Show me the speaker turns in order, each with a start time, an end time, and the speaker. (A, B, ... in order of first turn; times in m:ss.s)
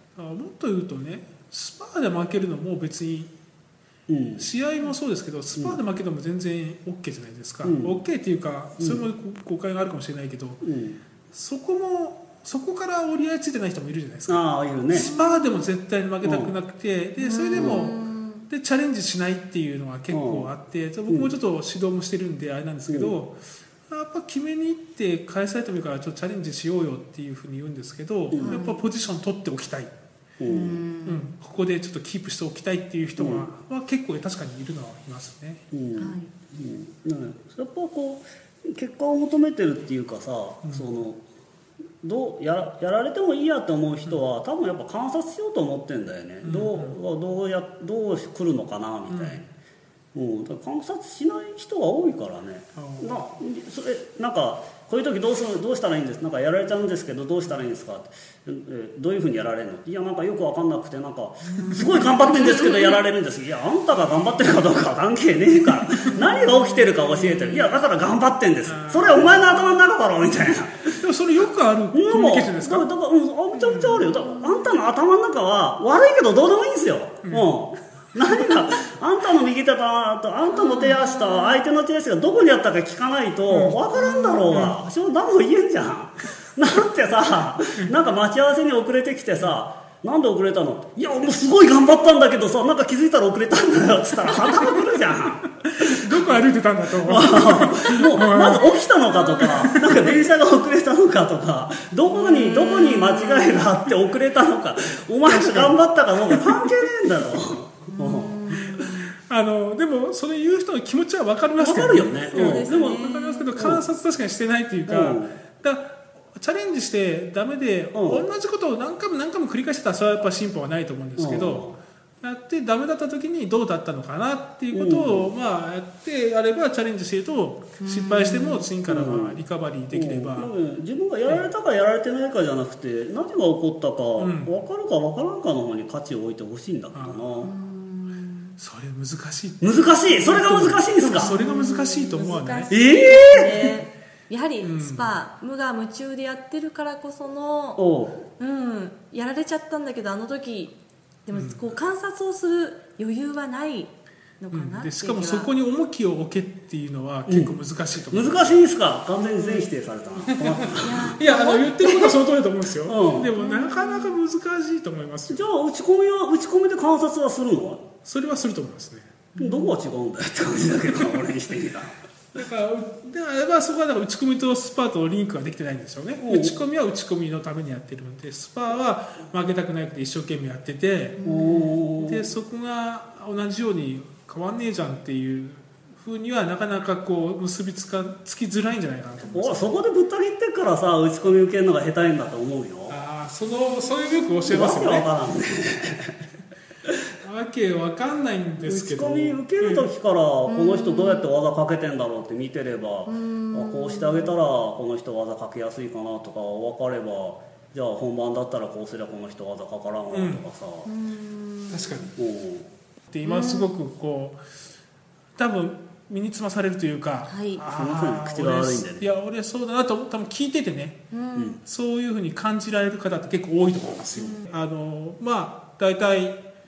0:00.2-0:03.3 A
0:04.1-0:04.5 B
0:04.4-0:10.6 A
0:07.6-0:08.0 B
0:10.6-0:11.0 B
0:11.3-0:29.9 A
0:14.3-0:15.1 B
0:14.9-0:15.6 C
0:16.2-0:16.5 B
0:17.2-0:18.5 C
0:17.5-0:17.9 B
0:20.1-0:20.5 B
0:22.9-0:23.1 B
0:28.3-0:28.6 B
0:28.4-0:28.8 C
0:30.4-0:30.8 B
0:30.4-0:31.2 C
0:31.0-0:35.6 A
0:33.2-0:33.5 B
0:35.7-0:41.2 B
0:36.0-0:36.3 C
0:42.0-0:49.4 B
0:46.4-0:47.0 A
0:49.1-0:49.4 A
0:50.1-1:36.3 B
0:52.8-0:53.2 A
1:01.6-1:03.0 C
1:06.0-1:07.8 C
1:08.6-1:09.8 A
1:11.0-1:12.9 A
1:13.5-1:14.1 A
1:14.1-1:14.8 C
1:17.2-1:17.5 A
1:20.5-1:21.6 C
1:23.5-1:23.8 A
1:23.9-1:24.7 C
1:35.6-1:38.7 A
1:37.0-1:48.5 B
1:39.1-1:39.6 C
1:39.4-1:40.0 A
1:42.1-1:43.7 C
1:45.2-1:46.9 A
1:47.9-1:49.1 C
1:48.8-2:01.7 A
1:51.6-1:53.0 B
1:52.3-1:53.5 C
1:53.6-1:53.8 B
1:54.9-1:55.4 B
1:57.9-1:58.2 B
2:01.2-2:01.8 B
2:02.2-2:10.5 A
2:04.7-2:05.3 B
2:07.8-2:08.6 C
2:08.9-2:17.5 B
2:14.2-2:14.5 A
2:16.9-2:17.4 A
2:17.4-2:18.6 C
2:18.6-2:22.7 A
2:19.6-2:21.4 B
2:21.1-2:27.8 C
2:22.7-2:23.8 B
2:24.6-2:25.2 A
2:27.8-2:28.2 B
2:28.4-2:35.5 C
2:31.3-2:31.6 A
2:34.5-2:38.6 A
2:37.3-2:37.5 B
2:38.1-2:41.2 B
2:39.2-2:39.7 C
2:40.3-2:45.5 A
2:40.8-2:42.2 C
2:42.8-2:43.3 B
2:43.4-2:44.2 C
2:45.3-2:47.8 B
2:48.0-2:49.1 A
2:49.3-2:49.8 C
2:49.4-2:52.0 B
2:52.3-3:01.2 A
2:56.2-2:56.6 B
3:01.2-3:01.8 C
3:01.2-3:02.3 B
3:02.0-3:09.7 A
3:09.2-3:13.0 B
3:12.9-3:15.1 A
3:13.8-3:14.4 C
3:14.5-3:16.2 B
3:17.2-3:19.9 A
3:18.6-3:30.9 B
3:20.4-3:21.2 C
3:23.0-3:24.3 C
3:30.1-3:30.4 A
3:30.8-3:32.1 C
3:31.7-3:32.1 A
3:32.2-3:32.7 B
3:33.1-3:34.4 A
3:33.2-3:33.8 C
3:35.4-3:41.0 A
3:37.2-3:37.6 C
3:37.7-3:39.0 B
3:41.1-3:41.6 C
3:41.6-3:46.4 A
3:44.1-3:44.5 C